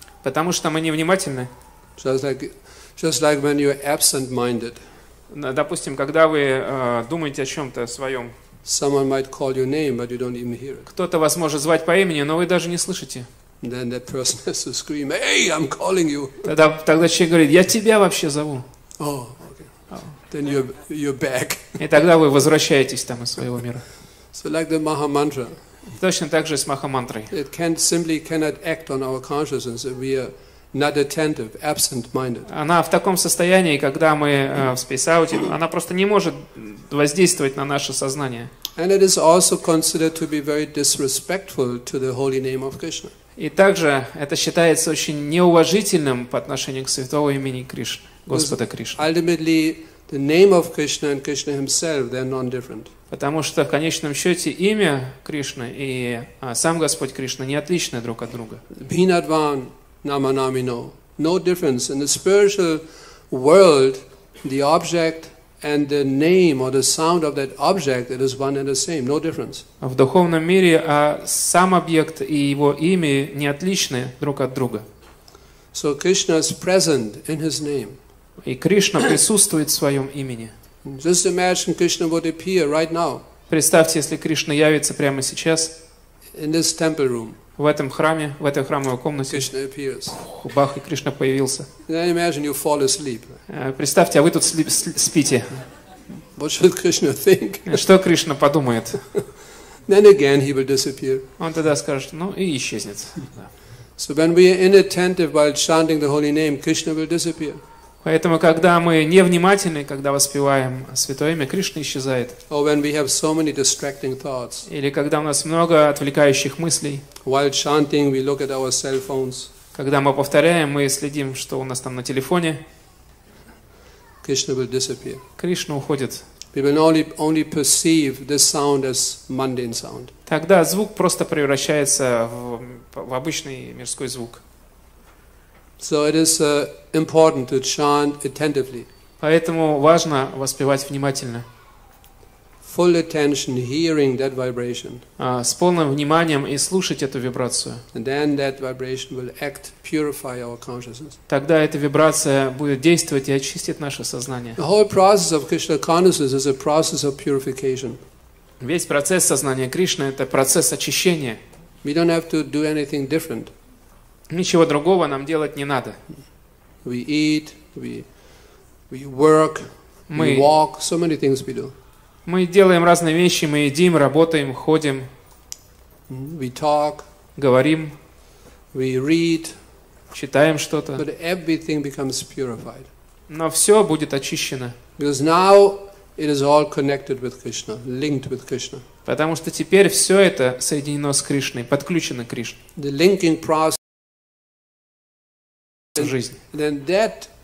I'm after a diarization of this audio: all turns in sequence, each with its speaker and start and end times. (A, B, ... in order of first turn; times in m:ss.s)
0:00.2-0:01.5 A
0:02.0-0:04.8 B
0:05.3-0:08.3 A
0:08.6-0:10.9 B
0:10.9-0:13.3 A
0:13.6-0:16.4 B
0:16.4-0:18.6 A
0:19.0-0:21.8 B
0:21.8-0:23.8 A
0:24.3-0:25.6 B
0:25.9-0:27.3 A
0:27.3-0:32.5 B
0:32.4-0:38.5 A
0:38.7-0:43.1 B
0:43.4-0:49.0 A
0:48.3-0:52.9 B
0:53.1-0:58.6 A
0:58.7-1:09.6 B
1:09.8-1:14.8 A
1:15.7-1:18.0 B
1:18.4-1:20.5 A
1:20.8-1:23.2 B
1:23.5-1:25.7 A
1:26.3-1:27.4 B
1:27.6-1:29.5 A
1:29.3-1:30.2 B
1:30.1-1:31.7 A
1:31.9-1:33.4 B
1:33.5-1:35.6 A
1:36.3-1:37.8 B
1:37.7-1:39.0 A
1:39.9-1:41.2 B
1:41.4-1:43.5 A
1:44.0-1:47.6 B
1:48.0-1:52.4 A
1:52.5-1:54.7 B
1:54.7-1:57.0 A
1:57.2-1:59.5 B
1:59.7-2:02.6 A
2:04.2-2:05.2 B
2:05.4-2:06.2 A
2:06.5-2:10.1 B
2:10.3-2:14.4 A
2:15.8-2:18.9 B
2:19.2-2:21.4 A
2:22.6-2:25.0 B
2:25.2-2:27.8 A
2:27.9-2:31.2 B
2:31.3-2:34.6 A
2:34.6-2:38.0 B
2:38.6-2:41.4 A
2:41.8-2:43.5 B
2:44.3-2:46.0 A
2:46.8-2:48.0 B
2:48.9-2:51.7 B
2:50.1-2:50.5 A
2:52.2-2:55.1 A
2:56.1-2:57.0 B
2:57.4-2:57.9 A
2:58.7-2:59.5 B
3:00.1-3:01.0 A
3:01.0-3:02.9 B
3:03.3-3:04.8 A
3:05.0-3:08.8 B
3:09.0-3:12.6 A
3:12.8-3:13.8 B
3:16.0-3:16.4 A
3:16.0-3:17.3 B